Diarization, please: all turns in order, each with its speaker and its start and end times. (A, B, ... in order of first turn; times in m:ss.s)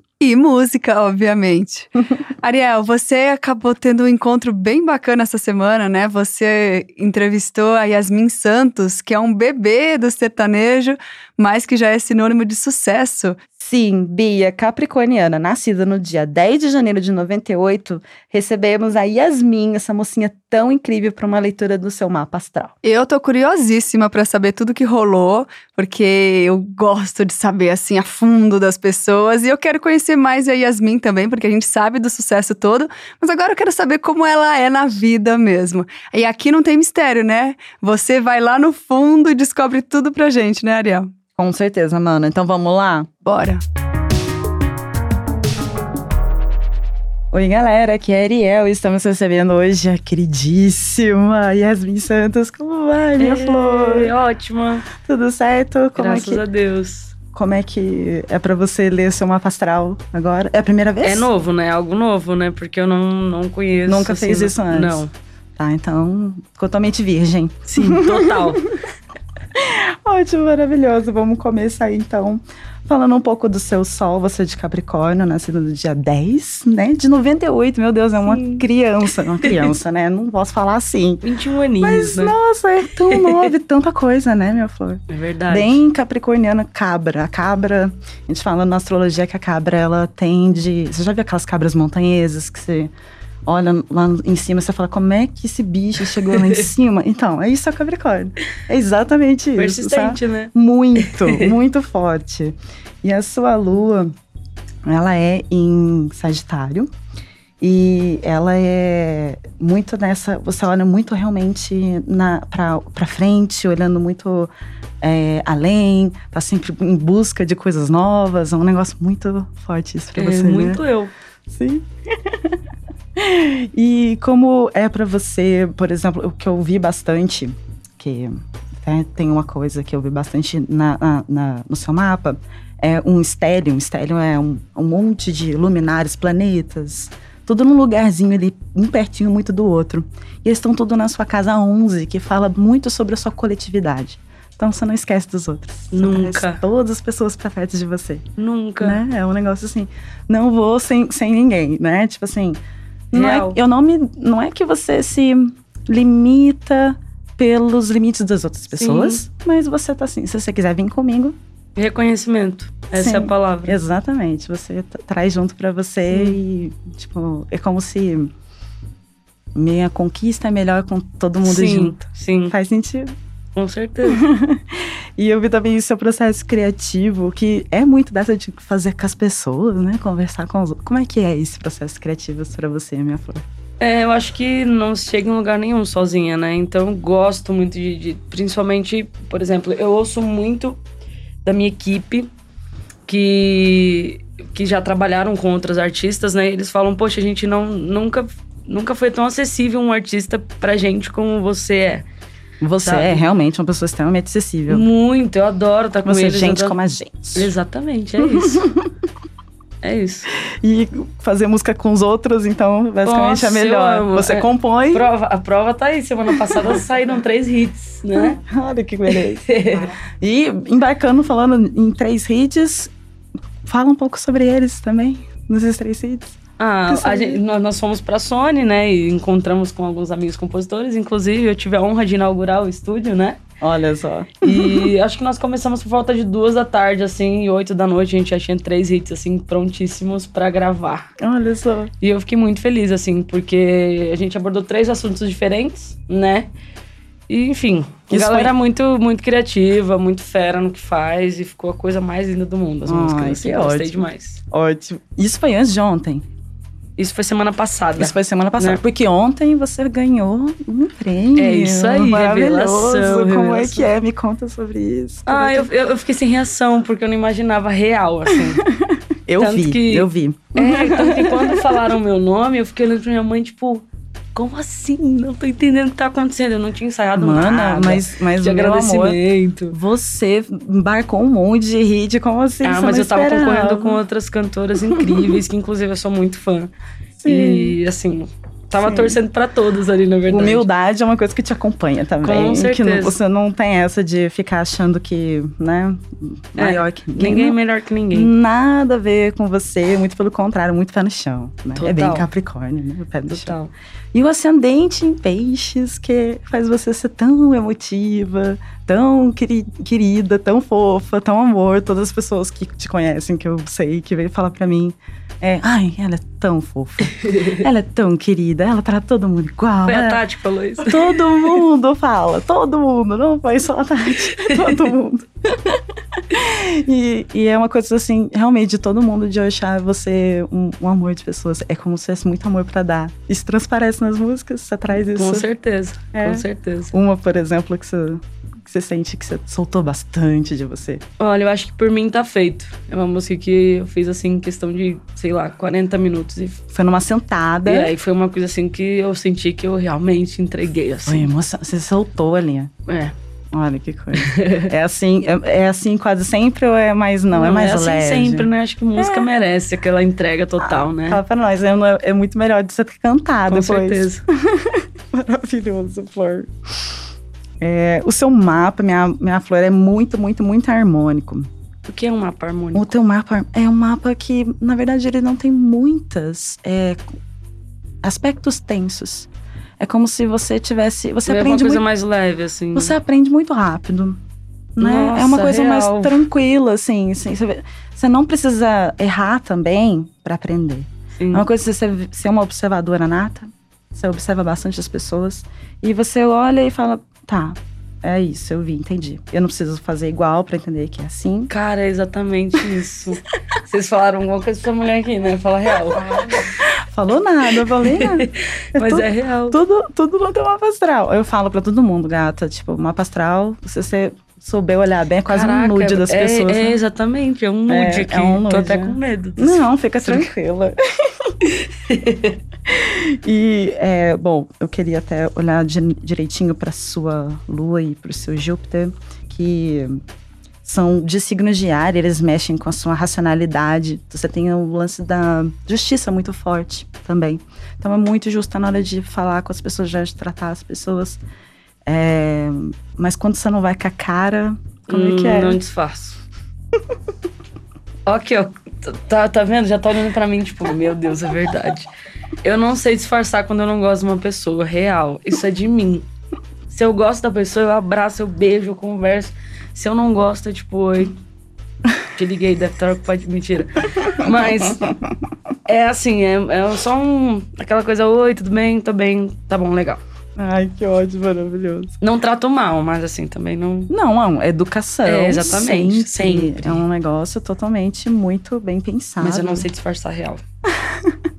0:00.2-0:01.9 A
0:02.4-0:13.4 A
0:13.6-0:22.7 B
0:22.8-0:41.1 A
0:41.4-0:43.1 B
0:43.2-0:43.6 A
0:47.3-0:54.1 B
0:53.2-0:54.9 C
0:54.9-0:56.4 B
0:56.0-0:57.1 C
0:57.3-1:01.3 B
1:01.0-1:05.1 C
1:03.9-1:05.0 B
1:05.6-1:08.6 B
1:07.7-1:08.6 C
1:09.5-1:21.2 B
1:18.2-1:18.6 C
1:19.4-1:19.6 C
1:21.2-1:22.4 C
1:21.8-1:32.9 B
1:23.1-1:23.4 C
1:25.1-1:25.8 C
1:33.4-1:44.1 B
1:36.3-1:36.6 C
1:39.6-1:41.5 C
1:44.8-1:46.9 B
1:47.6-2:00.8 B
2:00.1-2:01.1 C
2:01.5-2:02.6 B
2:03.2-2:28.2 B
2:25.9-2:26.6 C
2:28.4-2:29.0 C
2:28.8-2:32.6 B
2:33.1-2:41.4 B
2:33.1-2:33.6 C
2:38.7-2:39.2 C
2:41.8-2:43.8 C
2:43.0-2:48.3 B
2:46.1-2:46.4 C
2:49.5-2:53.1 B
2:51.4-2:52.5 C
2:53.6-2:54.2 C
2:54.0-3:03.4 B
3:03.8-3:10.8 C
3:11.4-3:12.3 C
3:13.1-3:22.1 C
3:22.6-3:24.9 B
3:22.8-3:23.2 C
3:24.7-3:26.8 C
3:26.0-3:27.5 B
3:27.3-3:28.7 C
3:28.2-3:28.9 B
3:29.8-3:30.3 C
3:30.3-3:35.1 B
3:33.0-3:38.4 C
3:36.5-3:36.8 B
3:38.2-3:42.9 B
3:39.1-3:39.9 C
3:43.6-3:46.4 B
3:46.6-3:53.4 C
3:46.9-3:47.4 B
3:53.6-3:54.9 B
3:54.4-4:01.1 C
4:01.2-4:01.9 B
4:02.0-4:06.5 C
4:07.3-4:14.4 C
4:08.1-4:08.5 B
4:12.8-4:16.2 B
4:17.0-4:18.8 C
4:18.0-4:25.7 B
4:21.4-4:23.9 C
4:25.3-4:28.6 C
4:28.3-4:32.0 B
4:29.4-4:39.8 C
4:37.2-4:39.2 B
4:39.7-4:44.0 B
4:42.6-4:46.7 C
4:44.9-4:45.4 B
4:47.2-4:47.8 B
4:47.2-4:50.7 C
4:48.8-4:49.2 B
4:50.3-4:57.6 B
4:52.2-4:53.2 C
4:56.6-4:58.3 C
4:58.1-5:03.5 B
5:01.7-5:02.3 C
5:03.3-5:03.7 C
5:04.1-5:20.2 B
5:17.3-5:17.6 C
5:19.8-5:21.6 C
5:20.8-5:35.5 B
5:24.3-5:24.9 C
5:34.9-5:36.9 C
5:36.1-5:41.0 B
5:41.2-5:46.6 C
5:46.7-5:47.9 B
5:47.6-5:51.3 C
5:51.1-5:52.7 B
5:52.9-5:53.1 C
5:53.5-5:59.3 B
5:54.2-5:54.7 C
5:57.3-6:01.2 C
6:00.6-6:06.5 B
6:03.5-6:04.2 C
6:07.6-6:11.5 B
6:11.8-6:12.9 C
6:12.7-6:17.0 B
6:18.0-6:19.3 B
6:19.8-6:21.8 B
6:21.3-6:22.9 C
6:22.7-6:24.2 B
6:24.8-6:41.5 B
6:24.8-6:26.2 C
6:31.2-6:31.4 C
6:41.5-6:46.5 C
6:45.9-6:56.8 B
6:47.6-6:49.6 C
6:55.3-7:00.3 C
6:57.7-7:01.3 B
7:01.5-7:02.4 C
7:02.6-7:10.0 B
7:10.6-7:21.2 B
7:21.8-7:25.6 B
7:24.9-7:26.2 C
7:28.0-7:31.9 C
7:32.4-7:36.0 C
7:36.7-7:41.2 C
7:42.1-7:44.9 C
7:44.2-7:45.0 B
7:45.6-7:50.0 C
7:50.4-7:51.9 B
7:52.0-7:53.9 C
7:53.9-7:59.7 B
7:55.0-7:56.8 C
7:59.2-8:00.4 C
8:00.8-8:01.2 B